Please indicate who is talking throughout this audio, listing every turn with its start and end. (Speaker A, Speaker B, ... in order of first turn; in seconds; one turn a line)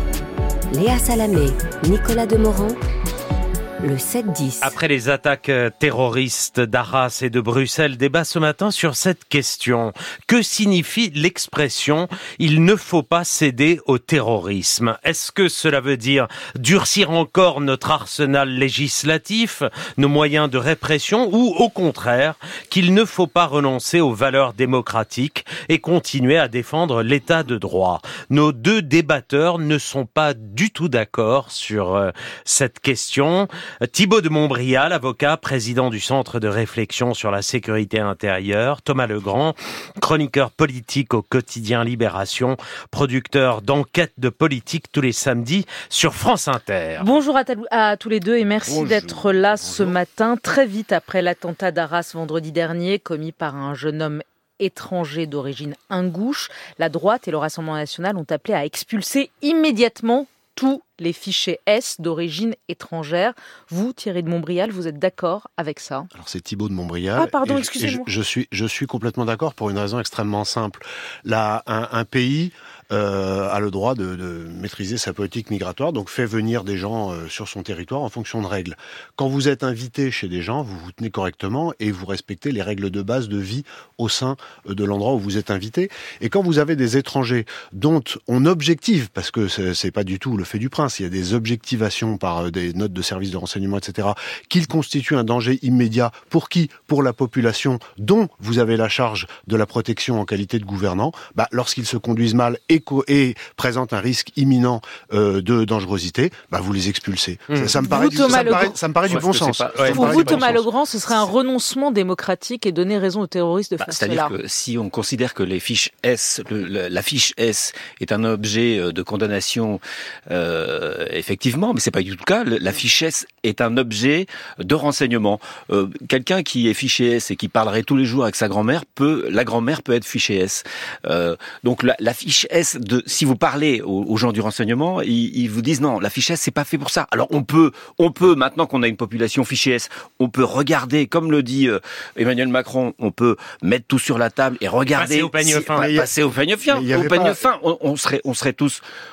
Speaker A: 0.7-2.8
Speaker A: 3.8-4.8
Speaker B: 4.6-47.1
Speaker C: 47.0-66.1
Speaker D: 48.6-49.9
Speaker E: 66.1-110.7
Speaker C: 67.2-68.1
Speaker C: 107.8-108.8
Speaker D: 108.3-110.6
Speaker B: 109.8-110.2
Speaker C: 109.8-114.3
Speaker D: 113.8-148.8
Speaker B: 145.0-145.9
Speaker E: 145.7-146.1
Speaker E: 146.7-147.4